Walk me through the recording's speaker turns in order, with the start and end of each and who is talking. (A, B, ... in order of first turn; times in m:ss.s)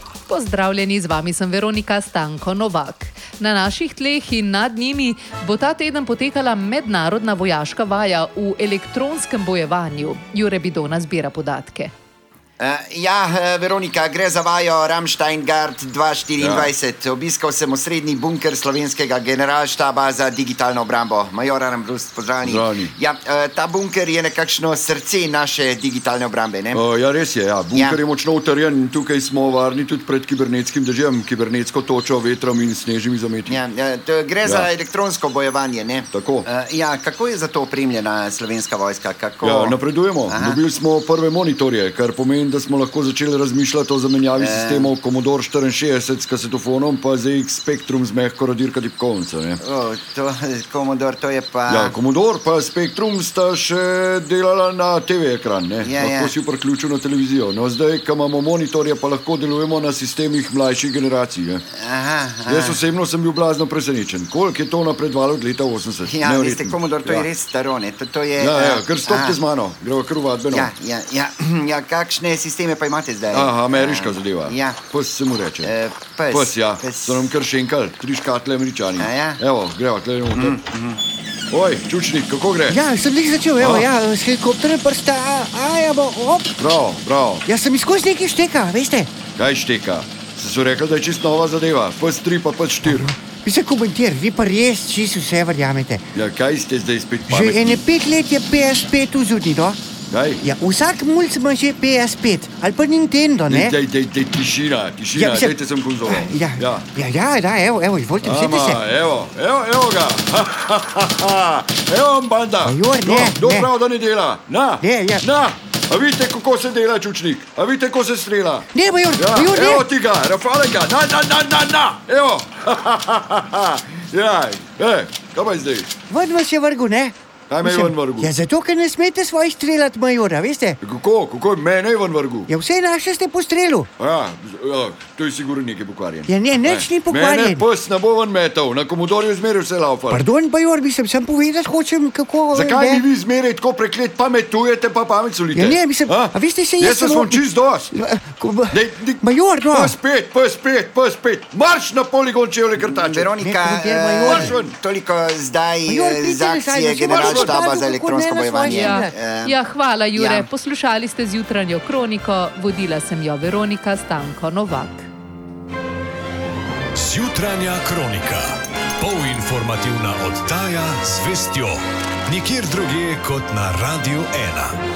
0:00.3-0:11.9 A
0:12.6-0:26.8 B
0:16.4-0:16.7 C
0:22.4-0:22.9 C
0:26.7-0:33.6 C
0:27.7-0:28.0 B
0:33.5-0:40.6 B
0:34.4-0:34.7 C
0:36.1-0:36.5 C
0:39.4-0:49.6 C
0:44.4-0:44.9 B
0:49.6-0:52.0 B
0:51.7-1:01.6 C
0:55.8-0:56.4 B
1:01.8-1:02.8 B
1:02.5-1:07.3 C
1:06.0-1:09.4 B
1:08.4-1:10.7 C
1:10.5-1:14.9 B
1:13.3-1:15.7 C
1:15.6-1:17.3 B
1:16.3-1:20.6 C
1:19.0-1:19.4 B
1:20.3-1:21.0 B
1:21.5-1:22.8 C
1:22.7-1:26.6 D
1:23.6-1:23.9 C
1:26.6-1:27.5 C
1:27.5-1:29.1 D
1:29.4-1:33.1 C
1:32.8-1:36.1 D
1:36.1-1:37.8 C
1:37.3-1:39.8 D
1:40.1-1:40.4 C
1:40.4-1:43.8 D
1:43.5-1:46.9 C
1:45.2-1:48.8 D
1:48.2-2:05.9 C
1:52.6-1:53.7 D
1:54.8-1:55.3 D
1:58.7-1:59.9 D
2:06.1-2:10.8 D
2:07.5-2:08.3 C
2:10.8-2:12.5 C
2:12.5-2:13.9 D
2:14.0-2:20.2 C
2:16.3-2:17.6 D
2:20.1-2:23.0 D
2:22.5-2:28.0 C
2:25.6-2:30.0 D
2:28.7-2:33.4 C
2:32.8-2:39.6 B
2:33.4-2:34.6 D
2:34.2-2:34.8 C
2:35.9-2:39.2 D
2:37.1-2:37.6 C
2:38.7-2:45.1 A
2:40.2-2:40.5 B
2:46.9-2:54.8 E